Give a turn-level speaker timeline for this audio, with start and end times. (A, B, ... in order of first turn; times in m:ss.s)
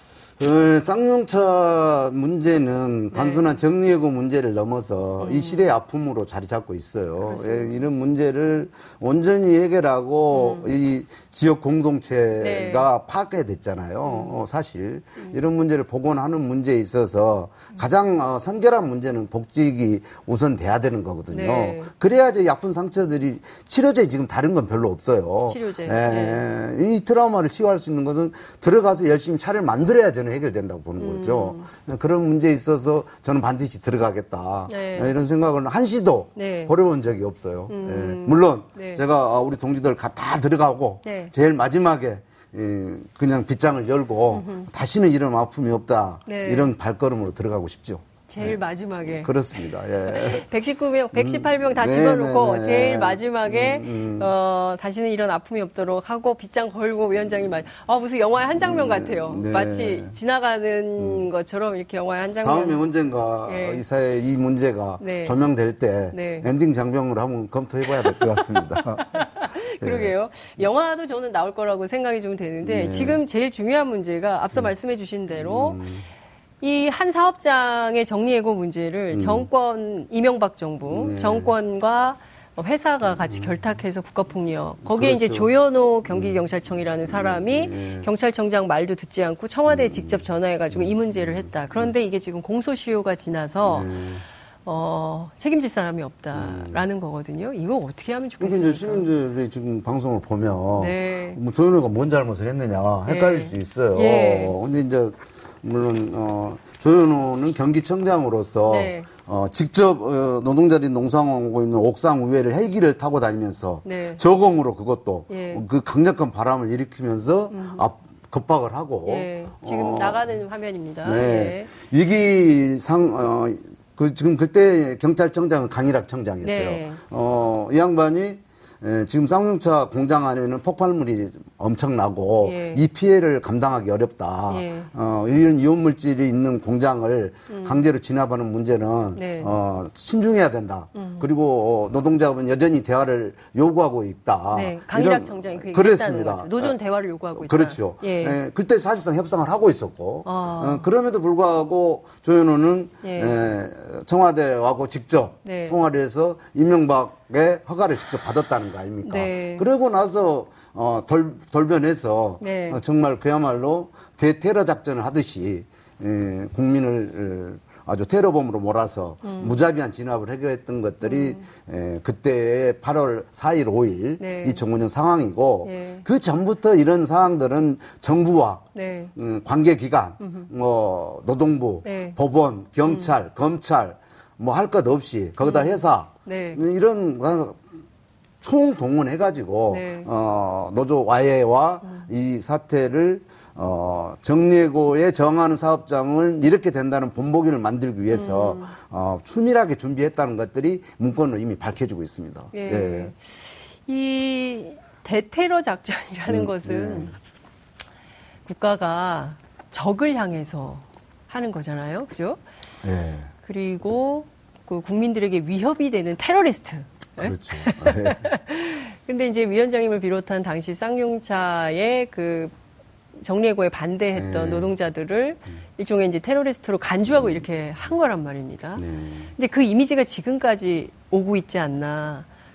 0:00.4-0:48.6 A
0:03.1-0:03.6 B
0:05.2-0:05.7 B
0:07.2-0:07.8 B
0:10.3-0:10.7 B
0:12.4-0:12.9 B
0:14.1-0:14.3 B
0:21.3-0:21.9 B
0:25.5-0:26.4 B
0:31.0-0:31.7 B
0:34.7-0:35.1 B
0:36.4-0:36.7 B
0:37.7-0:39.0 B
0:41.0-0:41.3 B
0:44.3-0:44.7 B
0:46.3-0:46.7 B
0:48.3-0:49.3 B
0:49.2-0:50.5 A
0:50.1-1:02.8 B
0:51.1-0:54.3 A
0:58.6-1:00.2 A
1:01.0-1:01.3 A
1:02.4-1:09.3 A
1:03.5-1:03.8 B
1:05.0-1:05.4 B
1:06.1-1:06.5 B
1:07.9-1:15.8 B
1:09.8-1:10.6 A
1:12.6-1:13.2 A
1:15.4-1:16.1 A
1:16.6-1:33.9 B
1:19.1-1:19.5 A
1:20.9-1:21.5 A
1:23.2-1:23.6 A
1:24.8-1:25.5 A
1:26.1-1:26.4 A
1:27.1-1:28.1 A
1:29.7-1:31.9 A
1:33.7-1:34.2 A
1:34.6-1:39.1 B
1:36.3-1:36.8 A
1:38.4-2:00.3 A
1:40.8-1:41.4 B
1:43.1-1:44.6 B
1:48.7-1:49.1 B
1:53.8-1:54.2 B
1:55.3-1:55.6 B
1:57.5-1:57.8 B
1:59.0-2:01.7 B
2:01.0-2:26.8 A
2:06.4-2:07.0 B
2:12.4-2:12.8 B
2:14.5-2:14.9 B
2:17.5-2:17.8 B
2:19.2-2:19.5 B
2:21.0-2:21.3 B
2:24.5-2:28.4 B
2:27.4-3:07.6 A
2:30.2-2:30.9 B
2:33.0-2:33.4 B
2:35.4-2:35.8 B
2:39.0-2:39.7 B
2:42.4-2:42.8 B
2:49.2-2:49.6 B
2:51.0-2:51.4 B
2:54.2-2:54.6 B
2:55.6-2:56.0 B
2:58.7-2:59.1 B
3:00.2-3:00.5 B
3:01.8-3:02.2 B
3:02.8-3:03.1 B
3:05.4-3:06.6 B
3:08.4-3:23.1 A
3:09.7-3:10.1 B
3:18.1-3:18.8 B
3:22.5-3:27.2 B
3:26.3-3:27.1 A
3:28.5-3:32.4 B
3:32.8-3:33.3 A
3:33.4-3:42.5 B
3:37.2-3:38.3 A
3:43.2-3:48.8 B
3:44.1-3:44.7 A
3:48.8-3:49.3 A
3:49.4-3:52.3 B